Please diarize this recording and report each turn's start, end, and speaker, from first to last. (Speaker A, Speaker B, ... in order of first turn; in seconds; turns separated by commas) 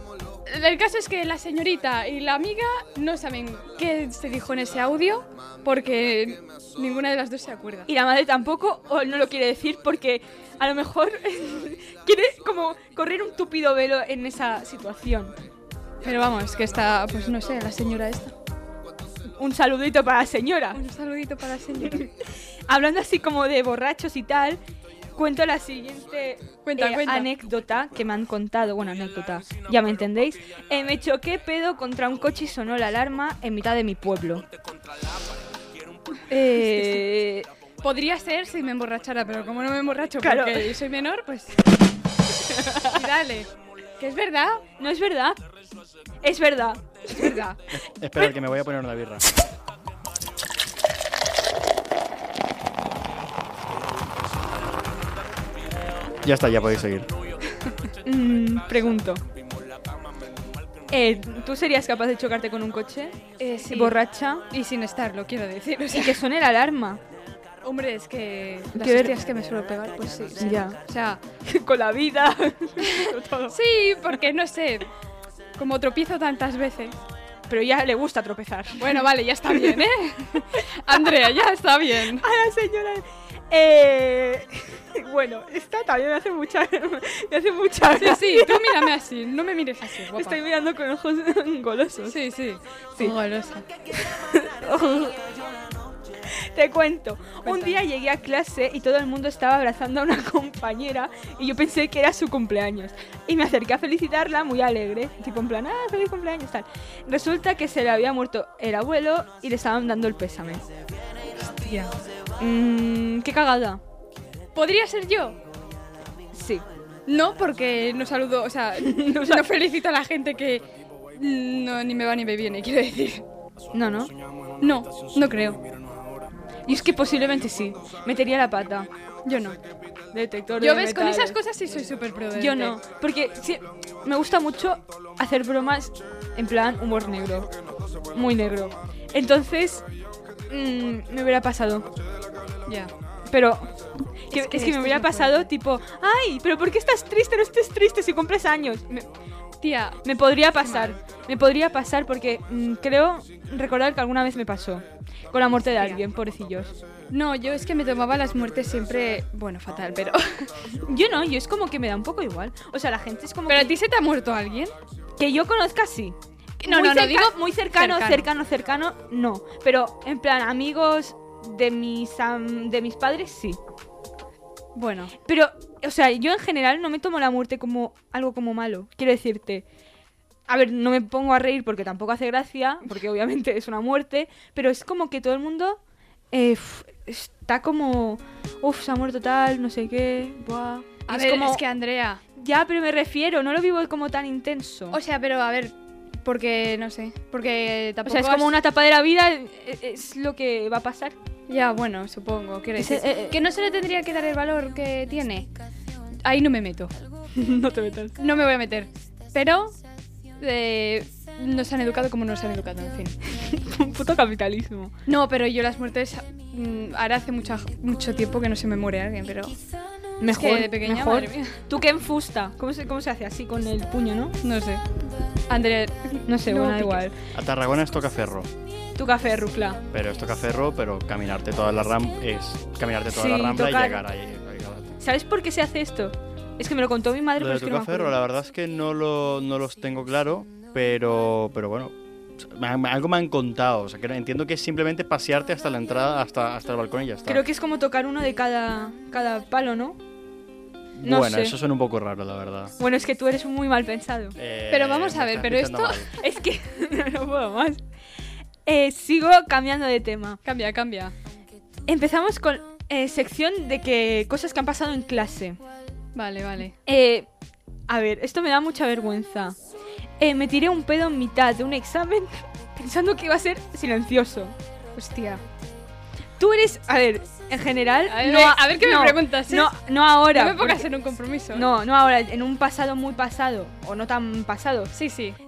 Speaker A: 0.5-7.9, Speaker B: 7.9-15.3, Speaker A: 16.0-18.3, Speaker B: 19.4-20.8, Speaker A: 20.7-22.1, Speaker B: 22.7-24.6, Speaker B: 25.1-34.5, Speaker A: 26.6-27.3, Speaker B: 36.3-37.5, Speaker A: 36.7-37.0, Speaker A: 37.8-41.6, Speaker B: 40.2-40.7, Speaker B: 42.4-43.0, Speaker A: 42.8-44.6, Speaker B: 44.8-45.4, Speaker B: 46.2-47.5, Speaker A: 47.1-47.5, Speaker C: 47.7-49.2, Speaker C: 56.2-57.1, Speaker B: 58.0-59.2, Speaker B: 60.9-64.4, Speaker A: 63.4-64.0, Speaker A: 64.5-66.2, Speaker B: 65.9-67.0, Speaker A: 67.6-71.2, Speaker B: 68.7-69.2, Speaker B: 70.4-70.8, Speaker B: 71.4-73.6, Speaker A: 73.5-74.9, Speaker A: 75.6-77.0, Speaker B: 77.5-79.8, Speaker A: 78.8-82.2, Speaker B: 82.2-88.9, Speaker A: 87.9-90.4, Speaker B: 90.1-92.2, Speaker A: 92.1-93.7, Speaker B: 93.9-95.2, Speaker B: 96.3-110.6, Speaker A: 97.4-97.8, Speaker A: 111.4-111.9, Speaker B: 112.4-113.8, Speaker A: 114.5-115.4, Speaker B: 116.3-116.6, Speaker A: 117.1-123.2, Speaker B: 118.8-119.5, Speaker B: 123.7-124.1, Speaker A: 124.6-125.6, Speaker B: 126.7-128.9, Speaker A: 129.2-129.6, Speaker B: 130.1-131.4, Speaker A: 130.6-132.8, Speaker B: 132.3-137.5, Speaker B: 138.1-139.8, Speaker B: 140.5-141.9, Speaker A: 142.7-142.9, Speaker B: 143.3-143.7, Speaker B: 144.3-149.1, Speaker A: 144.3-145.5, Speaker A: 149.6-150.0, Speaker B: 150.0-156.8, Speaker A: 150.5-151.0, Speaker A: 157.1-160.5, Speaker B: 160.8-163.7, Speaker A: 163.5-164.7, Speaker B: 165.2-173.6, Speaker A: 166.6-168.3, Speaker A: 174.7-175.1, Speaker B: 175.2-179.6, Speaker B: 180.5-185.8, Speaker B: 186.3-191.6, Speaker A: 191.1-192.2, Speaker B: 192.3-195.0, Speaker A: 194.9-198.5, Speaker B: 198.1-201.2, Speaker A: 201.5-205.5, Speaker B: 202.8-203.4, Speaker A: 206.2-206.9, Speaker B: 207.3-208.2, Speaker A: 208.2-209.8, Speaker A: 210.4-213.2, Speaker B: 213.4-214.9, Speaker A: 215.1-219.6, Speaker B: 220.2-224.4, Speaker A: 220.3-221.6, Speaker A: 224.4-224.8, Speaker A: 225.5-227.0, Speaker B: 226.3-227.2, Speaker C: 227.3-228.5, Speaker B: 228.9-229.8, Speaker C: 229.9-234.9, Speaker B: 233.1-234.0, Speaker B: 235.0-238.2, Speaker C: 237.4-247.4, Speaker B: 247.3-250.0, Speaker C: 251.0-252.7, Speaker B: 251.0-251.6, Speaker B: 252.8-254.3, Speaker C: 254.3-256.1, Speaker A: 254.7-256.1, Speaker B: 256.2-257.8, Speaker B: 258.6-260.4, Speaker A: 260.4-261.1, Speaker B: 261.9-265.6, Speaker A: 266.1-266.7, Speaker B: 266.9-267.3, Speaker B: 267.9-269.6, Speaker B: 270.2-274.5, Speaker A: 274.9-275.4, Speaker B: 276.4-280.9, Speaker A: 278.1-279.7, Speaker A: 280.3-281.7, Speaker B: 281.5-284.9, Speaker A: 284.9-285.4